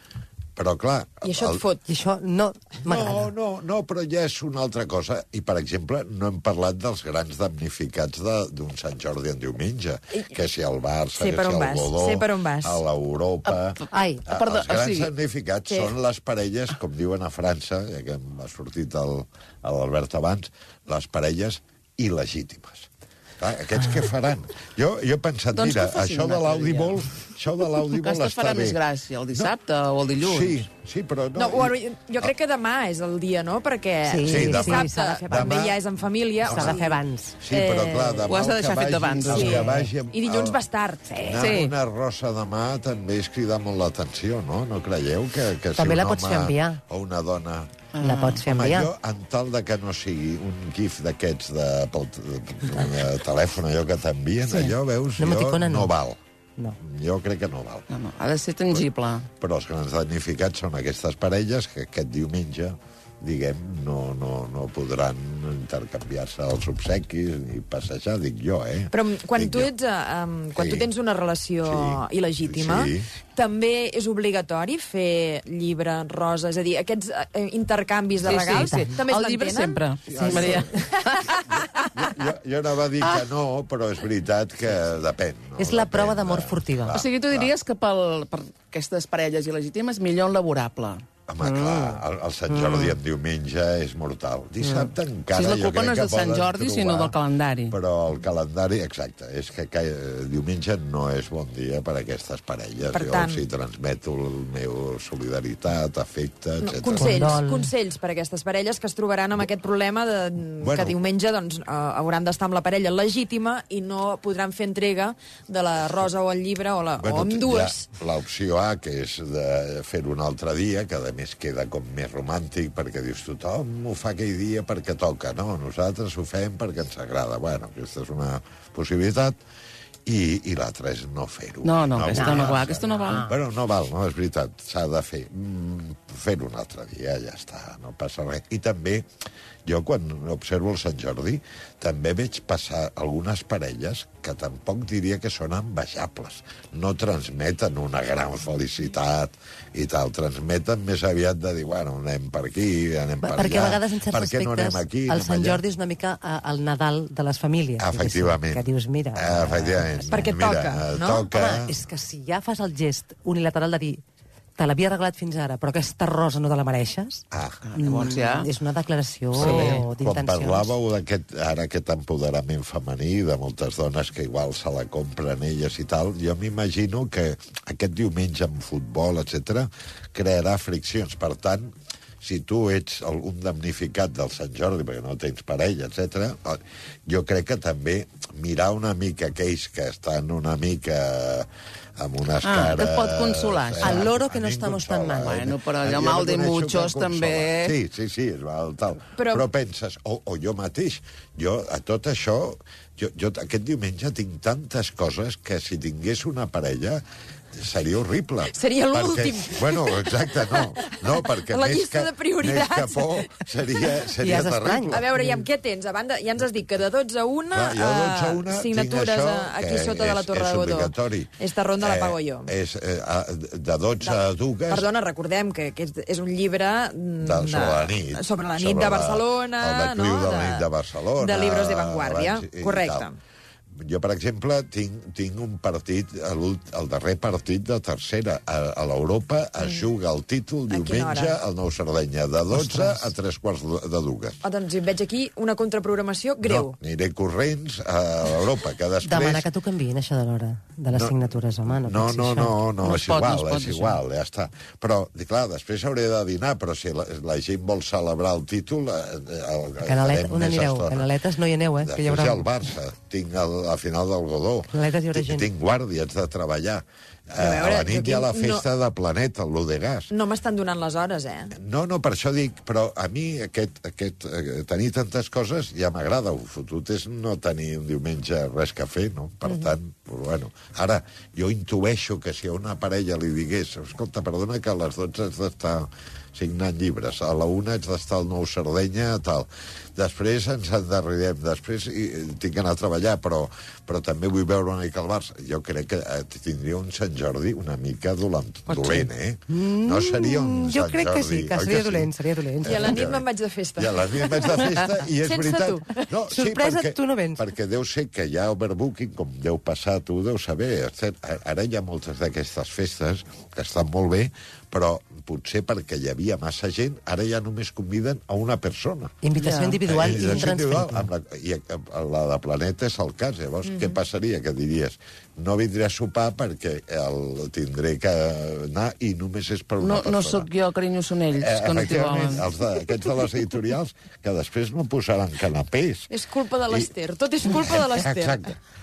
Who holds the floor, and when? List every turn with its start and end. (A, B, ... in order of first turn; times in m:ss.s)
0:00.6-0:01.6 A
0:01.2-0:01.8 B
0:01.9-0:03.3 C
0:02.8-0:22.9 A
0:11.2-0:12.8 B
0:13.4-0:15.1 D
0:13.9-0:14.3 C
0:15.7-0:15.9 B
0:23.4-0:28.8 A
0:25.5-0:27.0 D
0:27.8-0:30.7 D
0:30.2-0:32.3 A
0:31.4-0:38.3 B
0:34.1-0:35.6 C
0:34.2-0:35.8 A
0:36.4-0:37.4 C
0:36.4-0:40.6 A
0:38.2-0:39.9 D
0:39.2-0:41.5 B
0:39.4-0:39.7 C
0:41.2-0:47.8 A
0:41.4-0:41.7 D
0:45.8-0:46.8 C
0:47.9-0:48.4 D
0:48.0-0:48.9 C
0:48.4-0:56.2 A
0:54.5-0:55.9 C
0:56.8-0:57.9 A
0:57.9-0:59.3 D
0:59.4-1:09.7 A
1:08.9-1:20.9 B
1:10.6-1:10.9 A
1:11.6-1:13.1 A
1:18.2-1:22.2 D
1:18.5-1:18.9 C
1:20.0-1:20.9 A
1:21.9-1:27.5 A
1:25.6-1:27.0 C
1:26.9-1:32.0 D
1:31.3-1:37.2 A
1:32.5-1:32.8 C
1:32.6-1:32.9 D
1:34.6-1:37.8 D
1:37.7-1:47.2 A
1:42.9-1:43.4 B
1:46.6-1:57.8 B
1:47.0-1:47.7 C
1:50.6-1:51.1 A
1:57.0-2:09.4 A
2:10.1-2:19.1 A
2:11.6-2:13.3 D
2:12.1-2:13.4 C
2:19.7-2:35.6 A
2:33.2-2:40.4 C
2:37.8-2:41.8 A
2:40.1-2:41.3 B
2:41.2-2:44.0 C
2:44.6-2:47.2 C
2:47.3-2:47.6 A
2:47.6-2:48.5 D
2:47.8-2:50.7 C
2:49.4-2:49.9 D
2:49.4-3:11.5 A
3:12.0-3:35.1 A
3:12.4-3:14.1 D
3:13.8-3:15.4 C
3:15.2-3:17.8 D
3:19.2-3:19.5 B
3:28.5-3:33.3 B
3:34.2-3:35.4 C
3:34.9-3:42.5 B
3:37.5-3:44.9 A
3:44.0-3:53.2 B
3:47.2-3:53.1 A
3:53.8-4:04.4 A
4:00.7-4:01.4 B
4:02.5-4:03.1 C
4:04.4-4:06.8 B
4:06.4-4:09.4 A
4:09.0-4:12.6 C
4:10.9-4:21.1 A
4:12.8-4:14.0 D
4:19.8-4:22.5 C
4:21.8-4:30.1 A
4:24.7-4:25.5 C
4:27.4-4:28.7 B
4:30.1-4:31.5 B
4:31.5-5:03.3 A
4:39.4-4:39.8 B
4:58.7-5:03.0 C
5:02.6-5:05.9 B
5:03.8-5:19.2 A
5:06.3-5:07.5 C
5:19.2-5:21.1 C
5:19.4-5:19.8 D
5:19.9-5:30.5 A
5:23.6-5:24.0 B
5:29.8-5:32.5 D
5:31.4-5:36.1 A
5:36.1-5:38.4 B
5:37.5-5:38.6 A